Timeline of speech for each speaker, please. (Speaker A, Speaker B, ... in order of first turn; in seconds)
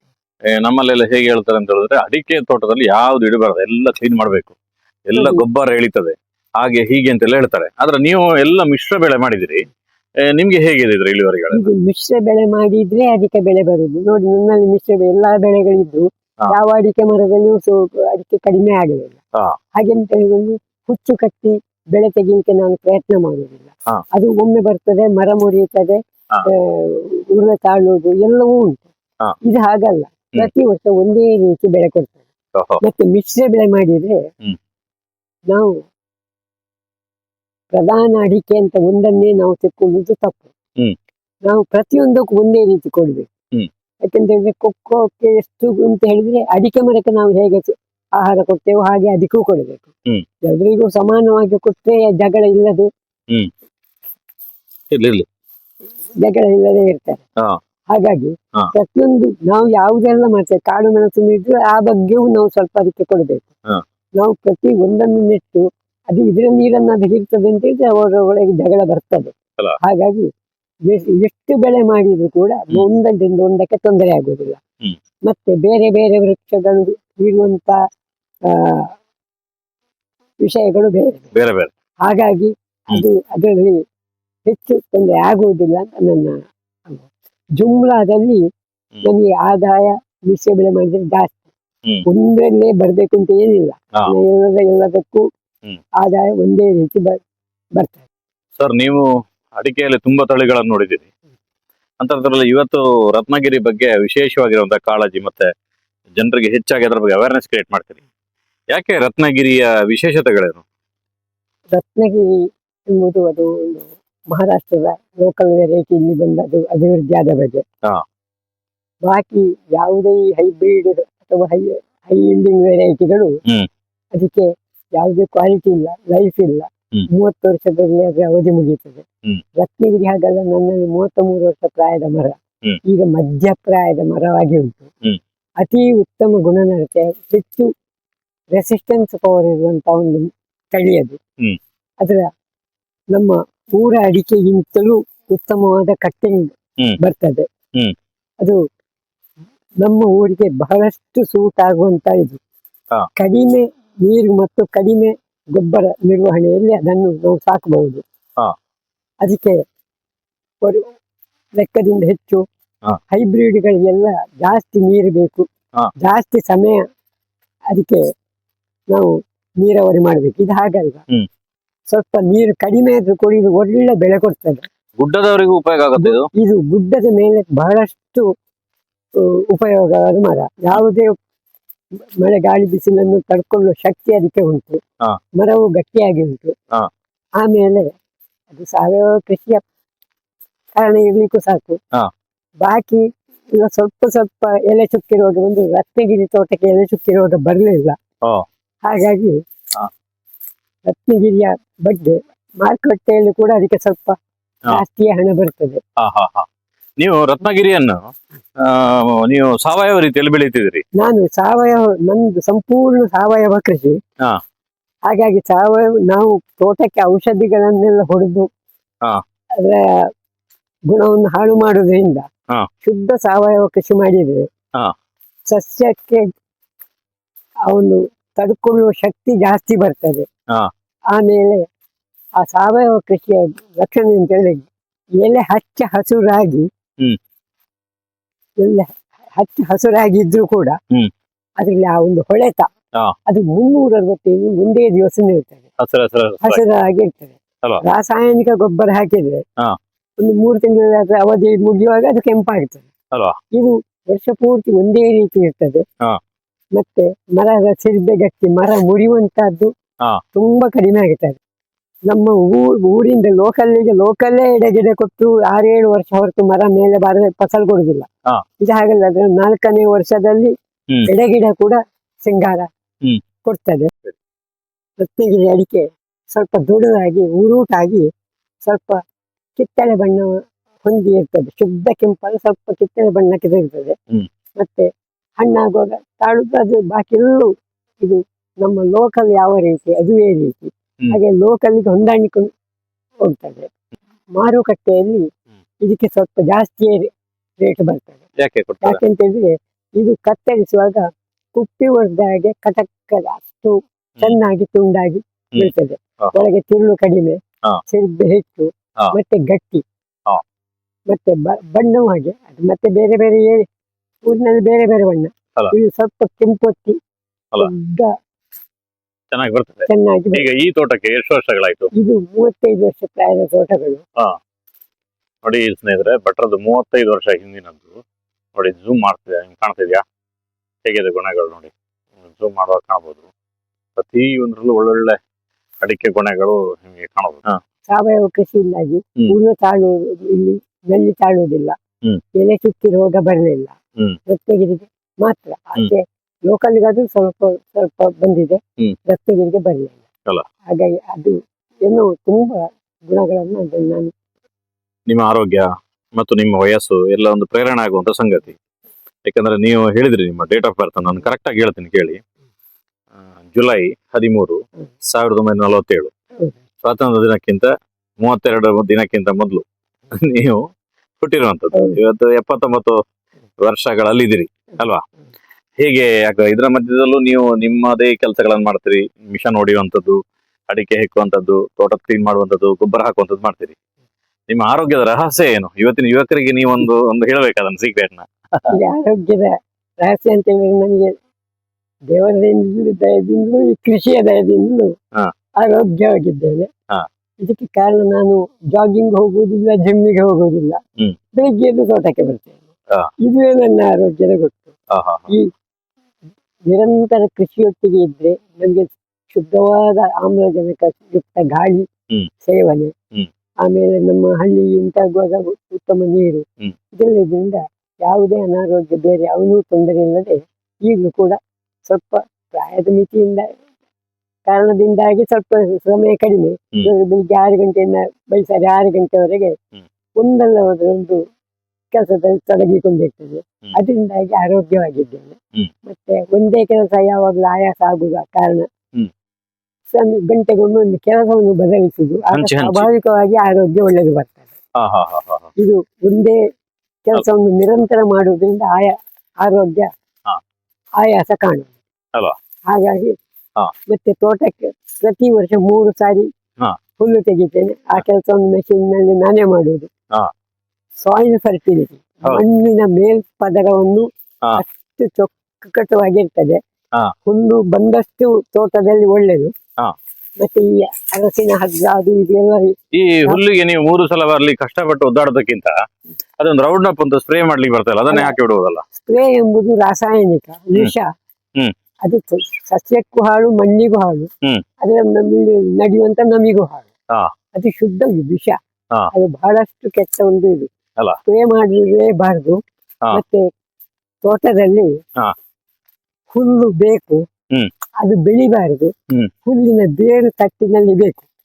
Speaker A: 0.5-4.5, 5.1-9.7, 10.3-11.7, 32.5-32.8, 54.9-55.2, 81.3-81.7, 98.6-101.1, 102.0-105.5, 106.1-108.0, 108.7-110.6, 175.0-176.3, 206.0-206.5, 207.0-210.8, 245.8-246.6, 298.4-299.0, 305.5-306.4, 319.3-321.9, 325.4-328.0, 328.5-330.0, 330.9-331.7, 332.2-333.3, 333.9-335.1, 335.8-337.5, 355.1-358.6, 359.2-362.2, 363.4-366.1, 366.8-367.7, 368.2-370.7, 371.2-373.0, 373.6-375.0, 375.8-380.2, 380.7-383.7, 384.5-388.7, 404.9-405.3, 442.3-442.9, 444.8-445.5, 472.9-475.7, 476.4-478.8
Speaker B: 5.2-5.4, 11.5-19.1, 19.7-28.9, 29.4-32.1, 32.8-34.2, 35.5-35.8, 37.7-40.5, 41.5-43.3, 44.0-49.9, 50.4-52.9, 56.2-57.2, 57.9-63.5, 64.2-70.3, 70.8-74.6, 75.3-77.8, 78.5-78.9, 80.4-81.3, 82.0-83.8, 84.5-88.4, 89.0-91.4, 92.0-95.2, 96.0-97.2, 97.8-98.1, 111.7-117.6, 119.0-123.4, 124.1-129.0, 129.6-134.9, 135.6-137.7, 138.5-141.2, 142.0-142.3, 143.1-147.5, 149.8-152.4, 153.2-158.0, 159.2-159.6, 161.6-162.4, 163.1-165.5, 166.0-166.8, 167.7-168.0, 168.9-171.0, 171.9-174.7, 176.0-178.2, 179.2-181.2, 182.2-184.8, 185.4-186.5, 187.4-187.9, 188.5-189.6, 190.8-191.8, 192.6-198.0, 198.8-199.4, 200.8-204.2, 204.7-205.8, 211.0-214.0, 215.1-218.5, 219.6-220.0, 220.9-222.3, 222.8-224.4, 225.5-226.2, 227.7-230.3, 231.1-231.7, 232.4-234.7, 235.2-236.7, 238.6-240.8, 241.6-242.7, 243.3-245.6, 246.4-249.4, 250.2-252.9, 253.5-255.8, 256.8-259.7, 260.3-261.4, 262.1-268.1, 268.6-270.5, 271.1-272.7, 273.4-273.9, 275.0-278.1, 278.6-279.0, 279.6-284.0, 284.6-287.5, 288.0-292.5, 293.2-293.7, 294.3-295.3, 295.8-298.2, 298.8-309.8, 311.1-313.6, 314.2-317.0, 317.6-318.1, 319.9-320.5, 321.9-324.0, 337.9-341.8, 342.4-343.7, 344.3-350.0, 350.7-354.1, 388.7-391.1, 392.1-394.9, 395.6-396.7, 397.4-400.8, 401.4-402.7, 403.2-404.7, 406.7-411.9, 412.4-412.9, 413.6-423.6, 424.4-429.6, 430.2-431.2, 431.9-438.7, 439.9-444.5, 445.6-446.4, 447.1-449.9, 451.0-451.7, 452.7-453.2, 453.9-456.3, 457.0-459.9, 461.0-466.6, 467.2-469.5, 470.4-473.4, 479.0-481.1, 482.0-484.3, 484.8-486.9, 487.5-488.6, 489.1-490.7, 491.2-492.6, 493.1-493.4, 494.2-494.9, 496.3-497.2, 498.0-498.9, 499.4-501.2